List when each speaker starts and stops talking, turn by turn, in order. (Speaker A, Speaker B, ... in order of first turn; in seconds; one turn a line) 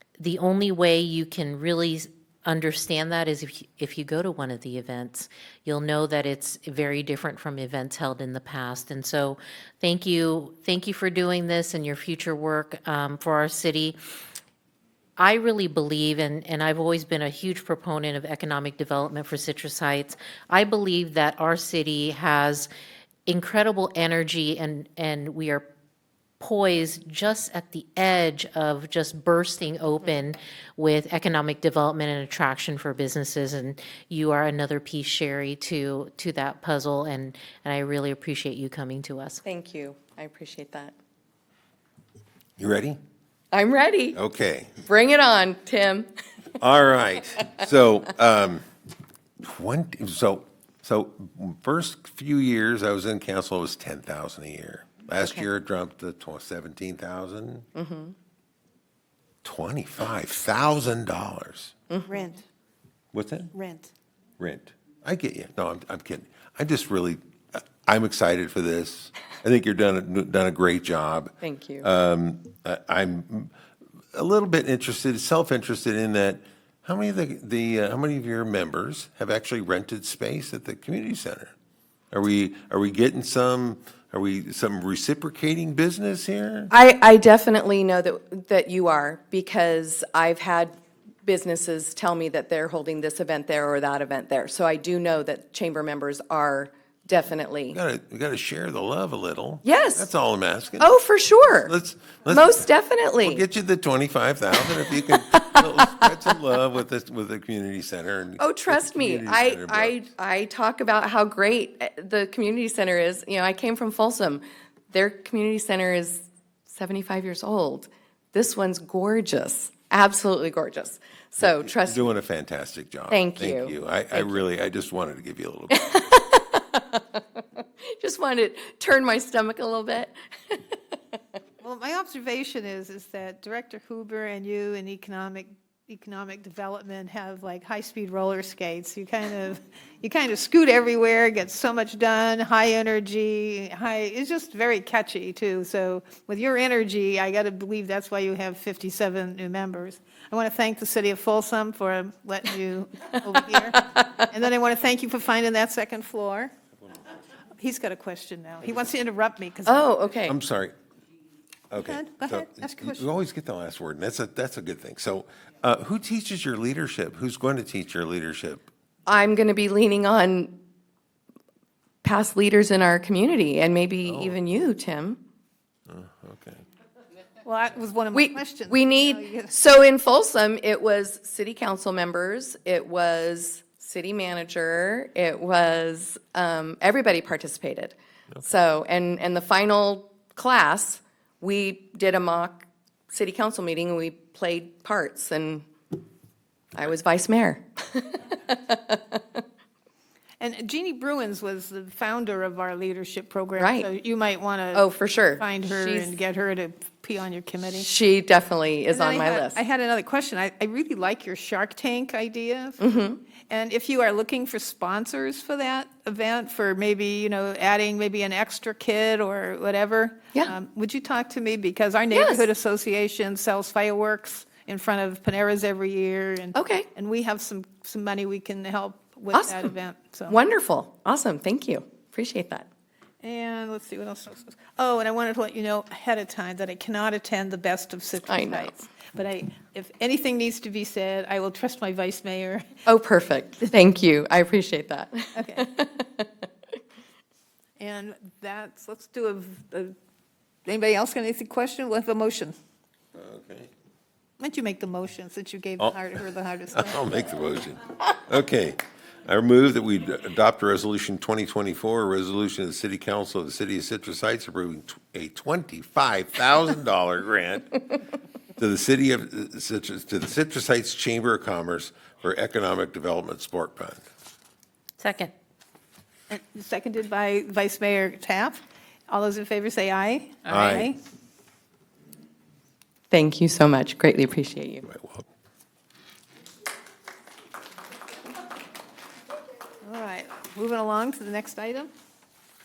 Speaker A: 0.2-14.0
Speaker A: 15.2-22.7
Speaker A: 23.3-25.6
Speaker A: 26.4-39.4
Speaker B: 39.5-40.9
Speaker C: 42.6-43.0
Speaker B: 43.5-44.2
Speaker C: 44.1-44.8
Speaker B: 44.9-46.1
Speaker C: 46.6-48.6
Speaker C: 49.4-57.7
Speaker B: 55.2-55.5
Speaker B: 57.8-58.1
Speaker C: 59.4-61.7
Speaker B: 61.9-62.2
Speaker D: 62.1-62.4
Speaker C: 63.1-63.5
Speaker D: 63.5-63.9
Speaker C: 64.4-73.5
Speaker B: 71.4-71.9
Speaker C: 74.1-81.5
Speaker C: 82.1-86.7
Speaker B: 86.7-97.8
Speaker C: 97.7-100.9
Speaker B: 99.6-100.1
Speaker B: 100.8-101.7
Speaker C: 101.6-102.5
Speaker B: 102.3-103.4
Speaker C: 103.2-110.1
Speaker B: 104.6-106.4
Speaker B: 108.4-122.1
Speaker C: 121.4-126.0
Speaker B: 123.1-124.4
Speaker B: 125.7-127.4
Speaker B: 128.0-131.0
Speaker D: 131.6-156.5
Speaker B: 153.5-154.0
Speaker D: 157.6-159.9
Speaker B: 159.7-160.4
Speaker C: 160.3-160.8
Speaker C: 161.7-168.6
Speaker D: 161.8-163.1
Speaker B: 169.1-170.6
Speaker B: 172.0-175.2
Speaker C: 174.0-174.4
Speaker C: 175.9-176.6
Speaker D: 177.4-179.6
Speaker B: 178.1-195.7
Speaker B: 196.8-199.4
Speaker D: 200.4-207.9
Speaker B: 203.6-203.9
Speaker B: 204.7-206.2
Speaker B: 207.8-209.6
Speaker D: 208.9-212.8
Speaker B: 212.8-213.2
Speaker D: 213.5-230.4
Speaker B: 222.1-222.5
Speaker B: 226.5-226.9
Speaker B: 229.3-229.7
Speaker B: 230.3-232.7
Speaker D: 233.2-242.7
Speaker B: 238.2-238.8
Speaker B: 242.9-246.3
Speaker D: 245.3-245.6
Speaker D: 247.8-249.9
Speaker D: 250.7-252.6
Speaker C: 253.2-253.7
Speaker D: 254.4-257.0
Speaker C: 256.7-267.8
Speaker C: 268.6-274.0
Speaker A: 275.0-275.3
Speaker D: 276.3-281.0
Speaker C: 280.5-280.9
Speaker B: 283.1-284.9
Speaker C: 284.8-285.3
Speaker D: 289.8-291.9